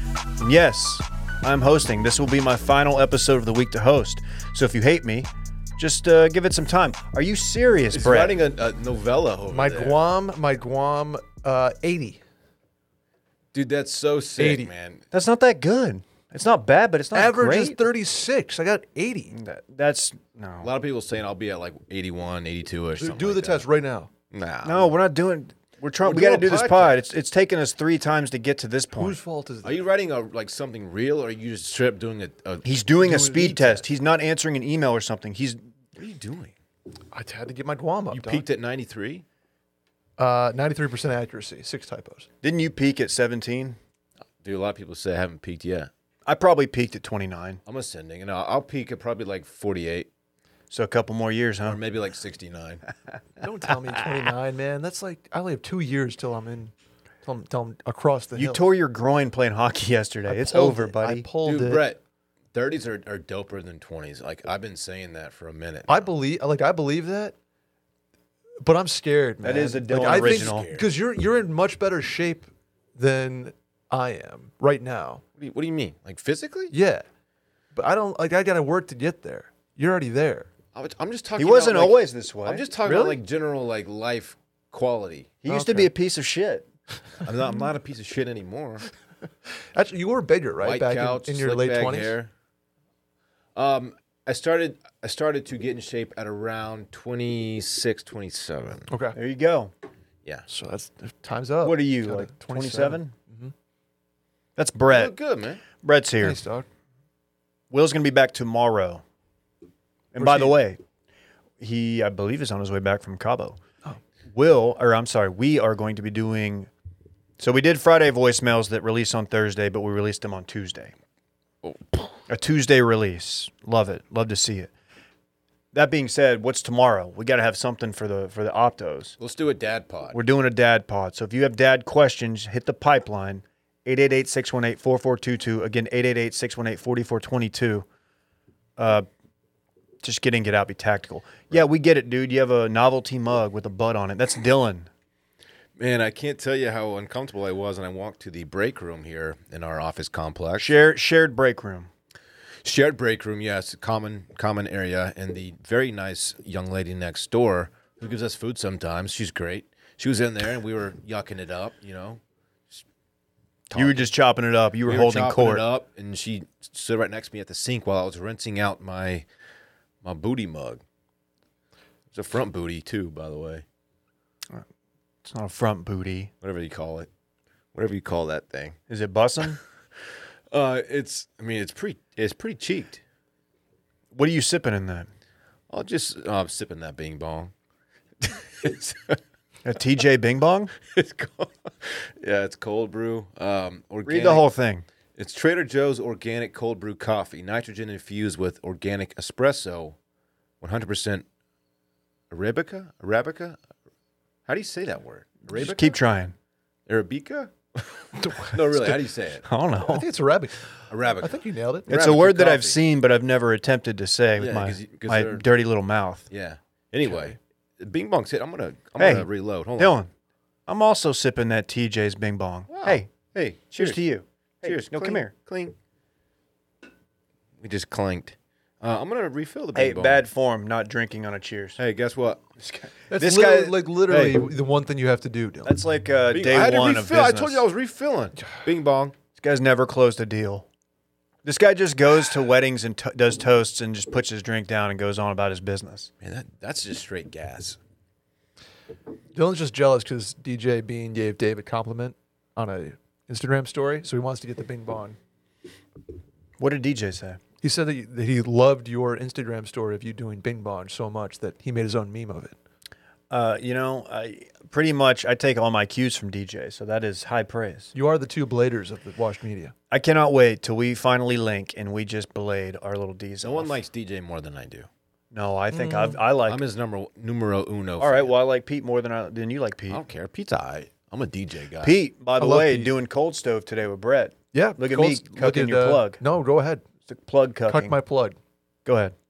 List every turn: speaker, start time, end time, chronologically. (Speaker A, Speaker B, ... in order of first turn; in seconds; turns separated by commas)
Speaker A: 0.4-8.3, Speaker B: 7.9-10.0, Speaker C: 9.5-12.2, Speaker B: 13.5-15.0, Speaker C: 14.4-14.7, Speaker A: 15.1-17.8, Speaker C: 17.1-19.4, Speaker A: 19.3-20.7, Speaker B: 20.6-23.6, Speaker C: 23.0-24.1, Speaker B: 24.3-24.9, Speaker A: 24.6-29.2, Speaker B: 26.0-27.0, Speaker C: 28.9-29.8, Speaker B: 29.6-33.5, Speaker A: 32.6-35.6, Speaker C: 33.0-33.8, Speaker B: 36.0-36.5, Speaker C: 37.1-38.5, Speaker B: 38.1-39.2, Speaker C: 40.2-42.3, Speaker A: 42.4-43.8, Speaker B: 44.4-45.9, Speaker A: 46.2-47.6, Speaker B: 47.6-50.1, Speaker A: 50.7-51.8, Speaker B: 51.6-52.8, Speaker C: 53.4-56.7, Speaker C: 57.2-58.6, Speaker A: 58.4-61.2, Speaker C: 60.3-61.8, Speaker B: 61.4-62.0, Speaker B: 62.5-66.1, Speaker C: 65.9-67.3, Speaker C: 68.6-75.2, Speaker A: 69.4-70.7, Speaker B: 69.9-70.9, Speaker B: 75.4-76.7, Speaker C: 76.7-77.0, Speaker C: 77.7-80.5, Speaker B: 80.7-85.4, Speaker A: 81.3-82.6, Speaker C: 82.8-83.2, Speaker A: 85.4-86.6, Speaker C: 85.5-85.9, Speaker B: 87.2-88.9, Speaker C: 89.5-92.1, Speaker B: 90.6-92.3, Speaker B: 93.5-98.9, Speaker C: 98.9-99.2, Speaker A: 99.1-99.7, Speaker C: 100.5-103.5, Speaker A: 101.6-103.1, Speaker A: 104.5-105.1, Speaker B: 104.9-105.6, Speaker A: 105.8-106.4, Speaker C: 106.2-106.7, Speaker A: 107.7-109.0, Speaker A: 110.1-110.8, Speaker C: 110.2-110.6, Speaker A: 111.6-113.6, Speaker A: 114.3-116.7, Speaker A: 117.4-120.9, Speaker B: 121.6-122.2, Speaker A: 122.3-124.7, Speaker A: 125.7-129.2, Speaker B: 129.2-130.2, Speaker A: 130.1-137.8, Speaker A: 138.8-139.1, Speaker A: 140.0-144.9, Speaker B: 145.8-150.8, Speaker A: 150.6-151.9, Speaker B: 152.6-162.2, Speaker B: 163.7-164.1, Speaker A: 163.7-165.6, Speaker B: 164.9-169.2, Speaker B: 170.0-170.8, Speaker B: 172.1-173.6, Speaker A: 175.2-176.3, Speaker B: 176.4-177.1, Speaker B: 177.7-178.8, Speaker A: 178.9-179.6, Speaker B: 180.5-183.0, Speaker A: 184.1-185.1, Speaker B: 185.7-187.5, Speaker B: 188.2-189.2, Speaker A: 189.6-190.7, Speaker B: 190.9-194.4, Speaker A: 194.1-194.8, Speaker B: 195.2-199.9, Speaker B: 200.6-201.2, Speaker B: 202.3-203.6, Speaker B: 204.4-206.0, Speaker A: 205.5-206.3, Speaker B: 206.9-209.4, Speaker C: 208.2-208.5, Speaker A: 208.8-210.1, Speaker C: 209.8-211.9, Speaker B: 210.9-212.8, Speaker A: 211.9-216.3, Speaker B: 214.4-215.4, Speaker B: 216.3-219.9, Speaker A: 219.0-220.1, Speaker A: 220.7-223.1, Speaker B: 222.7-224.0, Speaker A: 223.8-225.3, Speaker B: 224.6-225.7, Speaker B: 227.6-230.2, Speaker A: 229.7-231.8, Speaker B: 231.8-232.4, Speaker A: 232.6-234.4, Speaker C: 233.1-235.8, Speaker A: 235.6-237.7, Speaker B: 236.3-239.1, Speaker A: 239.4-240.7, Speaker A: 241.4-246.1, Speaker B: 246.2-247.8, Speaker C: 249.3-255.2, Speaker A: 256.6-257.4, Speaker C: 257.6-262.6, Speaker A: 263.3-267.9, Speaker C: 267.9-269.7, Speaker A: 269.9-273.7, Speaker B: 273.4-274.9, Speaker A: 275.3-276.6, Speaker C: 275.7-276.2, Speaker B: 276.4-278.3, Speaker A: 278.0-280.0, Speaker B: 279.9-282.0, Speaker A: 281.8-286.2, Speaker C: 282.4-282.9, Speaker C: 284.5-286.8, Speaker A: 287.1-287.9, Speaker C: 287.7-288.4, Speaker A: 288.8-289.1